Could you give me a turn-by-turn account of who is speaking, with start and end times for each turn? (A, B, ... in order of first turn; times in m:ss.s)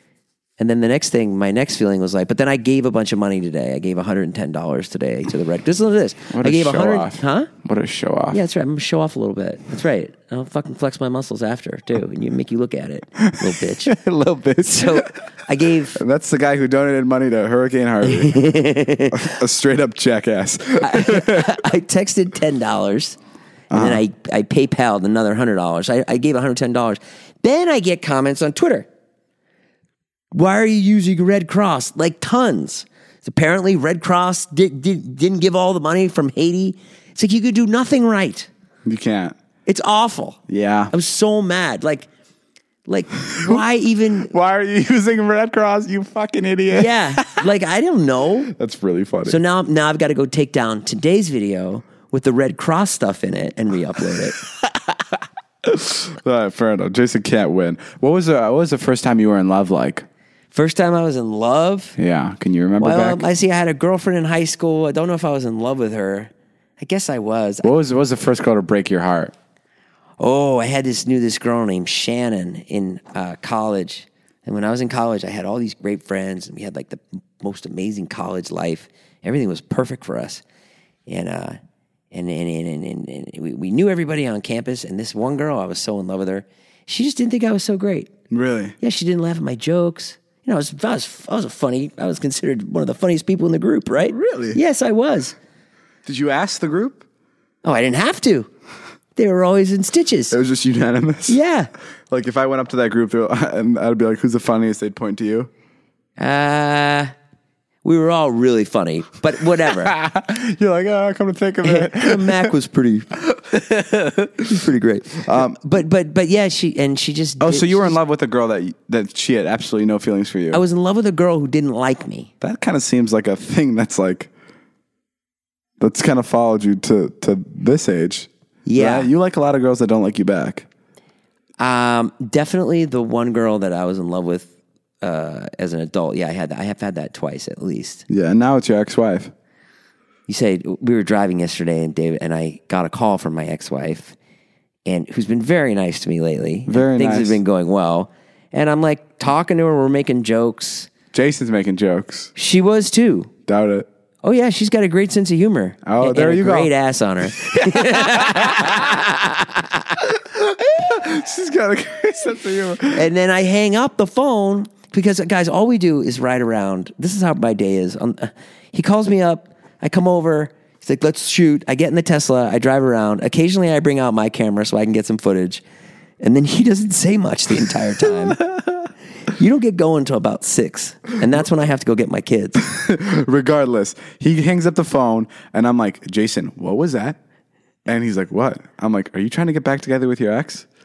0:00.6-0:07.5 A
0:06.3-0:08.4 B
0:08.3-0:13.9 A
0:13.2-0:15.1 B
0:14.6-0:16.0 A
0:15.9-0:18.6 B
0:18.0-0:19.3 A
0:19.1-0:21.6 B
0:20.8-0:23.2 A
0:23.7-0:24.0 B
0:23.7-0:28.9 A
0:30.3-0:38.5 A
0:38.8-0:39.4 B
0:39.6-0:40.4 A
0:40.5-0:40.9 B
0:40.9-0:42.1 A
0:42.8-0:44.3 A
0:43.3-0:43.6 B
0:44.3-0:47.4 B
0:46.7-0:48.5 A
0:48.5-0:49.4 B
0:49.2-0:54.4 A
0:55.6-1:00.0 B
1:00.5-1:02.0 A
1:02.0-1:03.2 B
1:02.8-1:07.7 A
1:07.6-1:09.3 B
1:10.2-1:20.4 A
1:21.1-1:21.6 A
1:22.1-1:28.1 A
1:28.3-1:28.8 B
1:28.8-1:35.4 A
1:34.1-1:34.6 B
1:36.0-1:37.0 B
1:37.6-1:38.5 A
1:39.2-1:40.4 A
1:40.3-1:41.4 B
1:41.3-1:41.7 A
1:42.1-1:45.5 B
1:46.2-1:47.1 A
1:47.8-1:49.9 A
1:49.6-1:52.5 B
1:51.6-1:58.0 A
1:55.2-1:55.6 B
1:57.4-2:00.6 B
2:00.5-2:02.3 A
2:02.4-2:04.3 B
2:05.8-2:10.6 B
2:08.6-2:09.1 A
2:11.6-2:18.0 A
2:18.1-2:19.3 B
2:20.3-2:24.2 A
2:24.8-2:30.9 A
2:26.7-2:27.4 B
2:31.1-2:32.3 B
2:32.3-2:33.3 A
2:33.4-2:33.9 B
2:34.2-2:39.9 A
2:35.8-2:36.7 B
2:37.3-2:39.1 B
2:40.0-2:43.1 B
2:42.9-2:55.6 A
2:56.2-2:58.4 A
2:58.2-2:58.7 B
2:59.3-3:02.6 A
3:02.6-3:07.2 B
3:07.8-3:10.6 B